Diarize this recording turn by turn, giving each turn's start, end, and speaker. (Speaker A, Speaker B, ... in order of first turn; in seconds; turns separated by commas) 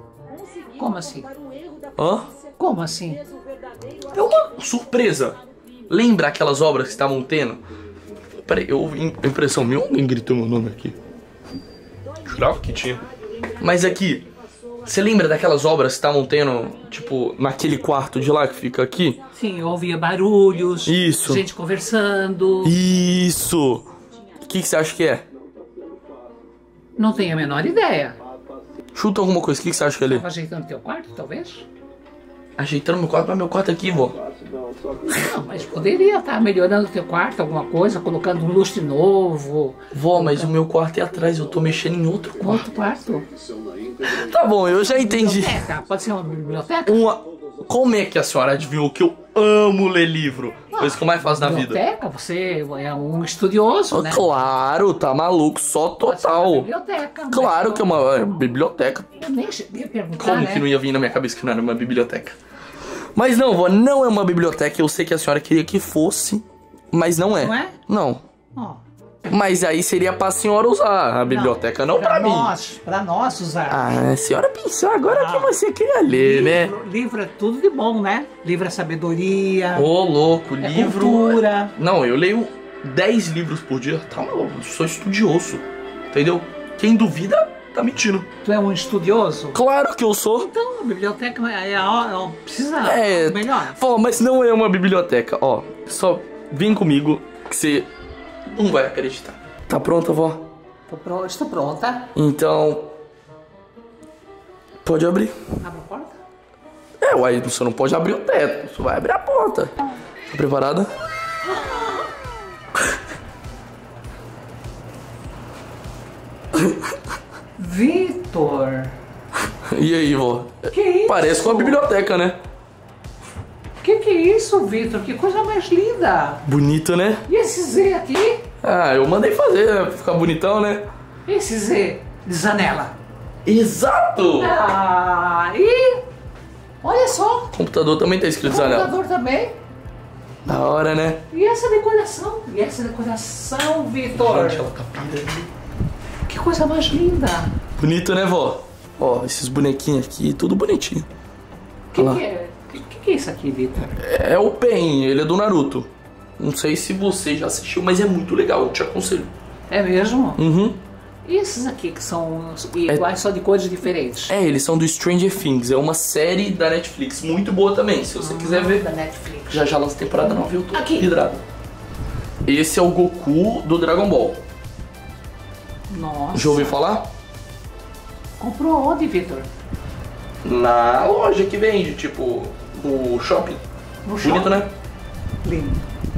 Speaker A: 0.7-1.3, Speaker B: 2.0-2.3, Speaker A: 2.6-3.2, Speaker B: 4.1-5.4, Speaker B: 5.9-7.6, Speaker B: 8.4-11.0, Speaker B: 12.3-13.0, Speaker B: 13.6-14.3, Speaker B: 14.8-19.2, Speaker A: 19.3-22.8, Speaker B: 20.9-21.4, Speaker B: 22.6-23.9, Speaker B: 24.4-25.2, Speaker A: 27.0-28.2, Speaker B: 29.0-30.2, Speaker A: 30.1-31.7, Speaker B: 32.6-34.2, Speaker A: 35.1-40.5, Speaker B: 39.9-42.7, Speaker A: 42.4-43.3, Speaker B: 44.0-45.6, Speaker A: 44.8-47.0, Speaker B: 46.9-51.8, Speaker A: 50.7-54.2, Speaker B: 53.9-56.7, Speaker A: 56.0-57.9, Speaker B: 57.3-59.1, Speaker A: 59.2-60.7, Speaker B: 60.2-62.4, Speaker B: 63.1-68.2, Speaker A: 67.4-67.8, Speaker B: 69.3-72.5, Speaker A: 71.3-74.0, Speaker B: 73.7-76.7, Speaker A: 75.1-75.5, Speaker A: 76.1-79.9, Speaker B: 79.8-88.3, Speaker A: 80.6-81.7, Speaker A: 88.4-89.6, Speaker B: 89.5-90.5, Speaker A: 90.4-93.8, Speaker B: 92.8-97.9, Speaker B: 98.5-100.5, Speaker A: 100.9-102.1, Speaker B: 102.2-102.9, Speaker B: 104.8-105.3, Speaker A: 105.6-106.2, Speaker B: 107.0-109.7, Speaker B: 110.3-110.9, Speaker B: 116.5-116.9, Speaker A: 117.6-118.9, Speaker B: 119.6-122.4, Speaker A: 120.7-121.8, Speaker A: 123.8-126.4, Speaker B: 126.5-127.2, Speaker A: 127.3-128.4, Speaker B: 128.6-130.9, Speaker A: 131.3-132.9, Speaker B: 133.4-134.6, Speaker A: 134.4-136.0, Speaker A: 136.8-137.5, Speaker B: 137.5-138.9, Speaker A: 138.4-139.6, Speaker B: 140.5-141.2, Speaker A: 141.3-144.6, Speaker B: 144.1-145.5, Speaker A: 146.3-147.5, Speaker B: 147.8-151.1, Speaker A: 151.9-153.9, Speaker B: 152.0-152.2, Speaker B: 153.9-155.9, Speaker B: 156.4-159.3, Speaker A: 159.7-160.4, Speaker B: 160.4-160.8, Speaker A: 161.2-164.3, Speaker B: 164.3-168.8, Speaker A: 168.2-169.7, Speaker B: 169.5-171.4, Speaker A: 170.7-171.1, Speaker B: 172.4-174.4, Speaker A: 175.9-176.8, Speaker B: 176.3-177.1, Speaker A: 178.4-179.5, Speaker B: 180.4-183.6, Speaker A: 184.1-184.7, Speaker B: 184.2-184.7, Speaker A: 185.4-185.8